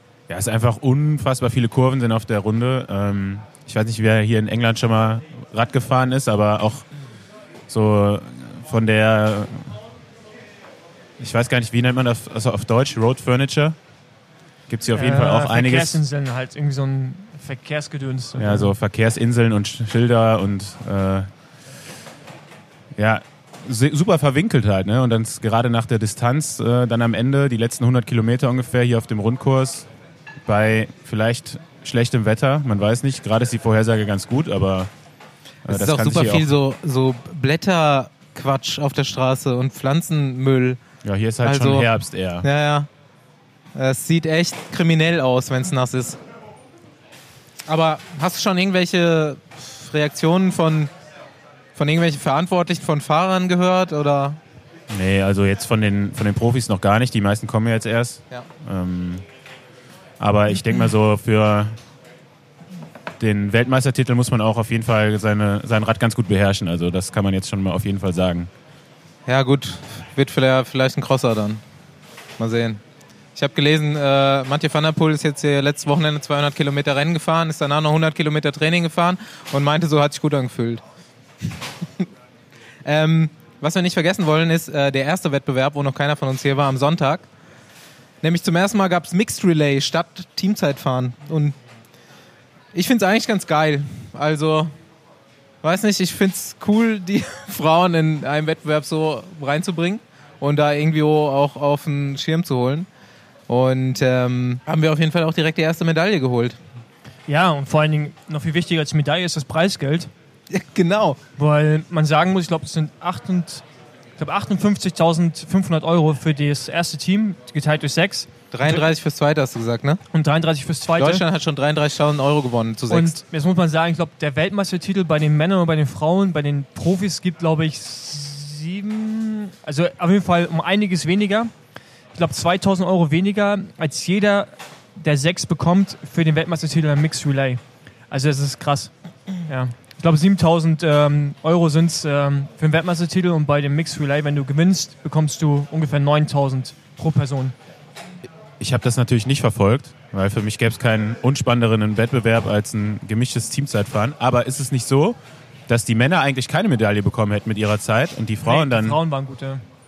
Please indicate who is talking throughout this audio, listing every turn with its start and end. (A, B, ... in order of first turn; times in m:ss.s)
0:00.3-0:06.8 A
0:07.7-0:09.8 A
0:11.2-0:13.8 A
0:14.7-0:16.0 A
0:14.9-0:18.7 B
0:18.4-0:21.3 A
0:23.0-0:29.9 A
0:30.4-0:34.9 A
0:35.6-0:36.5 A
0:35.7-0:40.8 C
0:41.0-0:42.4 A
0:41.4-0:41.9 C
0:42.4-0:42.9 C
0:43.7-0:46.2 C
0:47.6-0:50.9 C
0:51.8-0:54.4 C
0:54.9-0:59.2 A
1:00.2-1:01.8 A
1:03.2-1:08.5 A
1:09.3-1:11.6 C
1:12.4-1:12.8 C
1:13.4-1:20.8 C
1:22.8-1:27.2 C
1:28.2-1:31.6 C
1:32.7-1:34.7 C
1:35.6-1:42.9 C
1:43.5-1:46.6 C
1:47.3-1:50.1 B
1:50.5-1:51.2 C
1:51.4-1:53.6 B
1:54.2-1:58.8 B
1:58.5-2:00.0 C
2:00.1-2:01.2 B
2:01.0-2:03.1 C
2:02.9-2:11.5 B
2:12.1-2:27.5 B
2:28.6-2:35.2 A
2:35.7-2:39.0 A
2:38.4-2:39.6 B